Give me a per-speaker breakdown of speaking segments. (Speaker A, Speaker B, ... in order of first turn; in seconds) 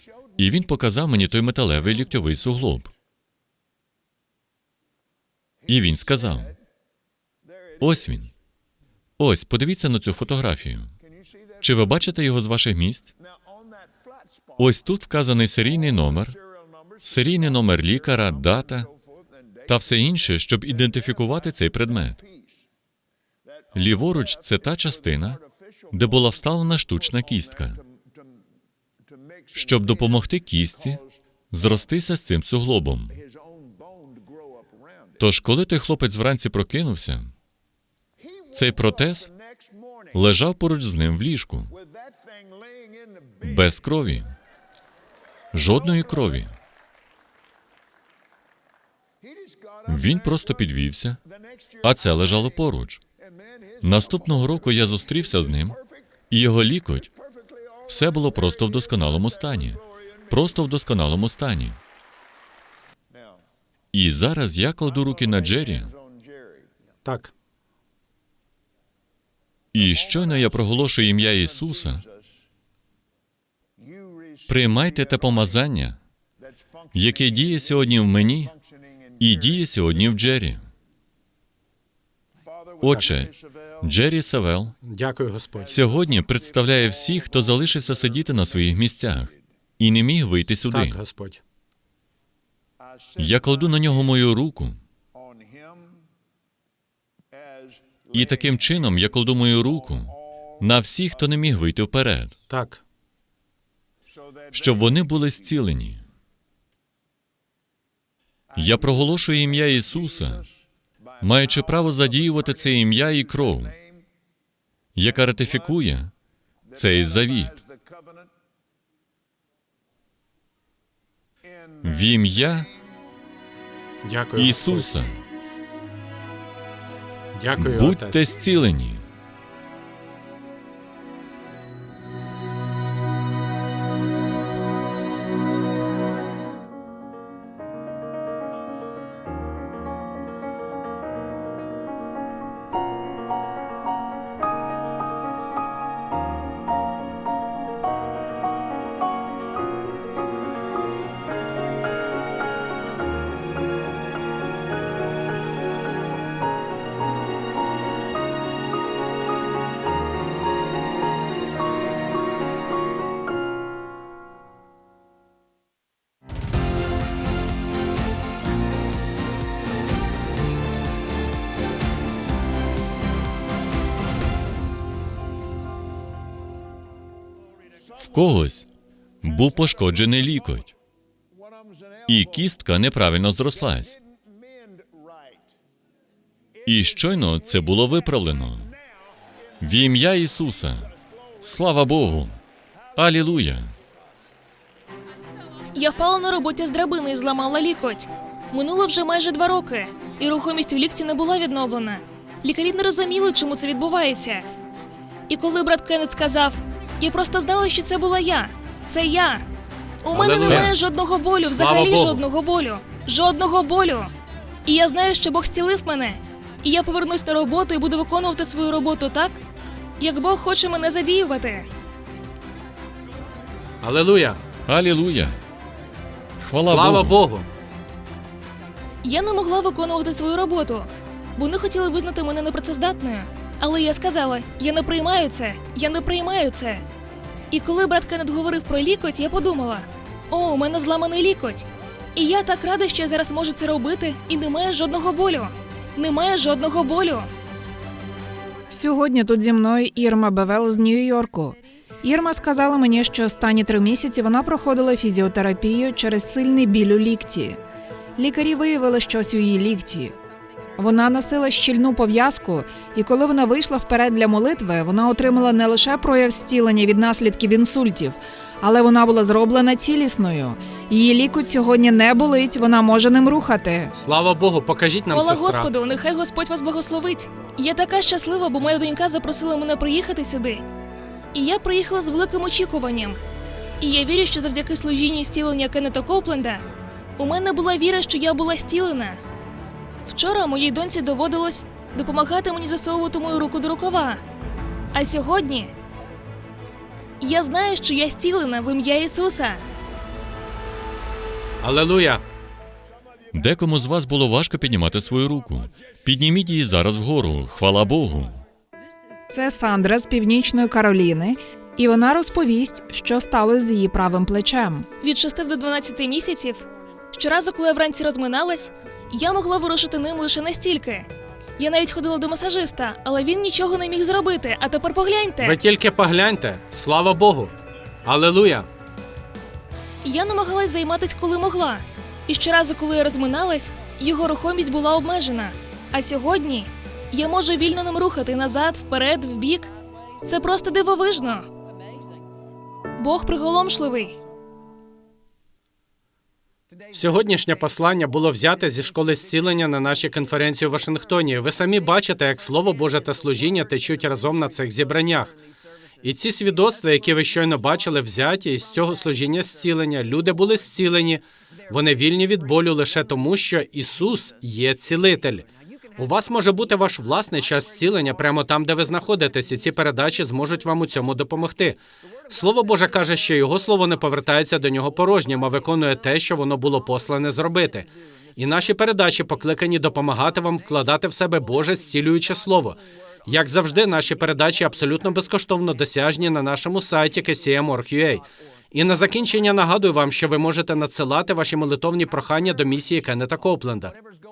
Speaker A: 0.4-2.9, 5.7-6.6, 7.8-8.3, 9.2-10.9, 11.6-13.2, 14.6-16.4, 17.0-18.9, 19.7-22.2, 23.7-27.8, 29.5-33.2, 35.2-37.3, 38.5-39.3, 40.1-41.8, 43.4-44.3, 45.5-46.5, 49.9-51.2, 51.8-53.0, 53.8-57.1, 57.9-61.8, 63.9-66.0, 69.7-72.1, 74.5-76.0, 76.9-78.5, 79.2-80.7, 82.8-84.8, 85.7-91.0, 93.2-94.8, 98.1-102.3, 104.5-106.0, 108.5-110.5, 111.2-113.8, 115.0-116.1, 116.7-117.6, 121.8-122.7, 124.4-125.2, 127.6-129.0, 178.0-178.7, 179.2-180.7, 182.1-184.0, 186.7-188.8, 189.6-192.4, 193.0-193.8, 210.5-210.7, 224.7-225.4, 226.4-227.2, 303.3-308.4
Speaker B: 67.0-67.3, 84.8-85.8, 90.7-91.4, 102.5-102.8, 124.0-125.0, 127.3-128.3, 210.1-210.8, 211.4-212.2, 223.8-224.4, 226.6-227.5, 273.9-275.7, 301.6-302.2, 325.4-327.5, 328.1-328.7, 346.9-355.4, 356.0-393.9
Speaker C: 195.8-204.4, 205.3-209.4, 210.0-214.1, 214.7-219.4, 220.0-221.7, 229.0-236.8, 237.5-247.3, 275.1-280.6, 281.3-283.2, 283.8-286.6, 287.2-289.2, 290.1-294.2, 294.9-295.7, 297.2-299.6, 315.0-321.1, 321.6-325.6, 330.0-339.7, 340.2-341.5, 343.0-344.2
Speaker D: 248.7-257.6, 258.2-260.1, 260.8-273.9, 309.3-314.9